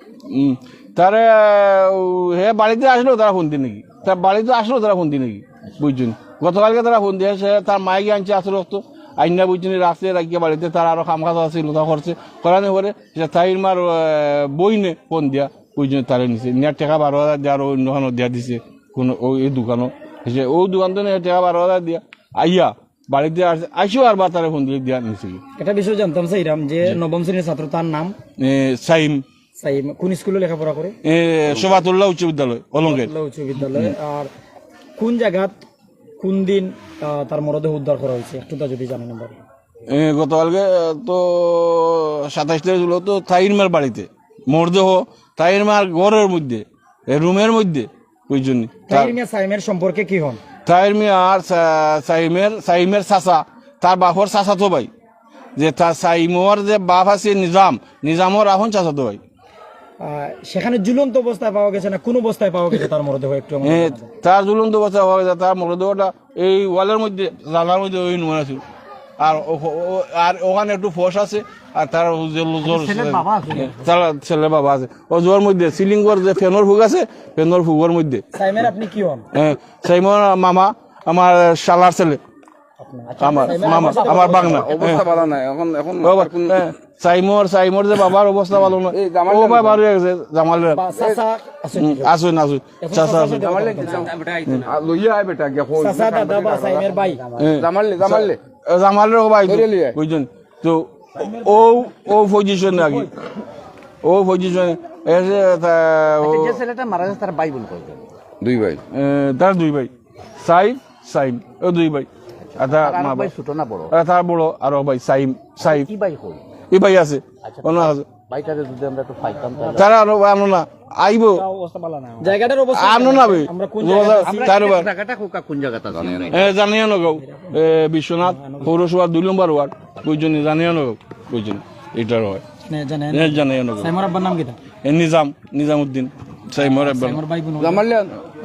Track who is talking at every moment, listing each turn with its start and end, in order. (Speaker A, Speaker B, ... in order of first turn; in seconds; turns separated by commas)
Speaker A: 0.3-25.4, Speaker B: 25.6-28.1, Speaker A: 28.4-29.2, Speaker B: 29.6-30.9, Speaker A: 31.0-34.0, Speaker B: 32.8-34.3, Speaker B: 35.0-35.6, Speaker B: 36.2-39.4, Speaker A: 39.9-49.1, Speaker B: 48.9-50.4, Speaker A: 50.7-54.9, Speaker A: 55.6-59.2, Speaker B: 60.0-64.1, Speaker A: 63.6-68.6, Speaker A: 69.2-78.2, Speaker C: 72.6-73.7, Speaker B: 78.3-79.2, Speaker A: 79.3-82.2, Speaker B: 82.8-85.0, Speaker A: 83.2-85.0, Speaker D: 84.7-86.5, Speaker A: 86.0-90.8, Speaker D: 88.9-89.8, Speaker B: 90.7-92.1, Speaker A: 91.8-93.4, Speaker B: 92.8-94.6, Speaker D: 93.4-94.1, Speaker D: 94.7-96.7, Speaker B: 95.8-97.2, Speaker A: 97.4-103.1, Speaker D: 97.6-98.3, Speaker D: 99.5-100.0, Speaker B: 102.8-103.1, Speaker A: 104.0-106.6, Speaker C: 106.2-108.1, Speaker D: 108.4-108.8, Speaker A: 108.9-109.9, Speaker A: 110.4-113.3, Speaker C: 112.5-113.9, Speaker A: 113.9-115.9, Speaker C: 115.6-116.4, Speaker A: 116.7-118.1, Speaker C: 117.4-120.0, Speaker A: 119.8-121.4, Speaker B: 121.7-124.5, Speaker A: 122.7-124.9, Speaker C: 124.2-126.6, Speaker A: 126.3-132.4, Speaker B: 128.2-128.7, Speaker B: 132.7-134.6, Speaker A: 133.1-133.9, Speaker A: 134.8-137.2, Speaker B: 136.8-137.9, Speaker D: 137.6-138.1